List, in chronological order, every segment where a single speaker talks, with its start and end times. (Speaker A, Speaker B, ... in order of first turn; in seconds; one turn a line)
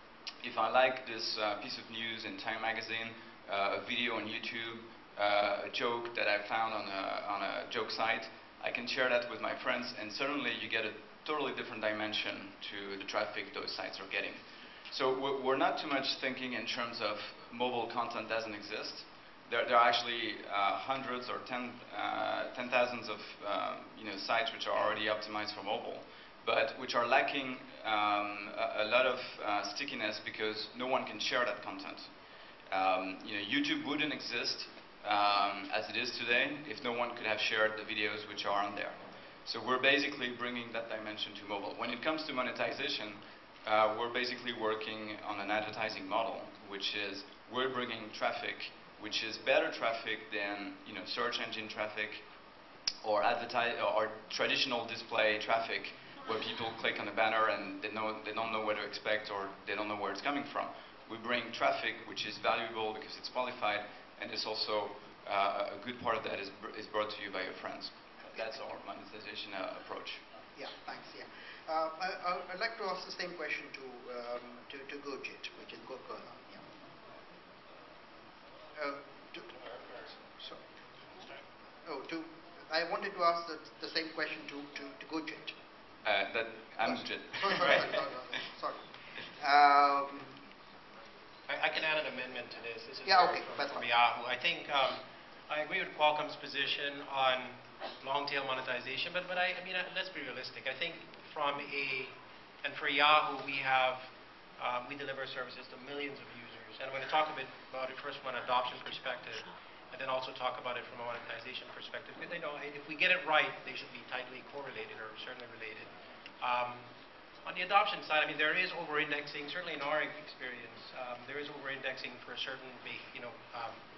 Speaker A: 0.4-32.1
Speaker A: 32.7-52.2
Speaker A: 53.0-70.2
Speaker B: 70.5-76.6
Speaker B: 78.8-79.5
Speaker B: 80.0-80.6
Speaker B: 81.8-85.5
Speaker A: 86.0-87.9
Speaker B: 86.8-88.8
Speaker B: 89.4-90.4
Speaker C: 91.5-104.0
Speaker B: 93.0-93.9
Speaker C: 104.6-115.9
Speaker C: 116.4-116.8
Speaker C: 117.5-123.8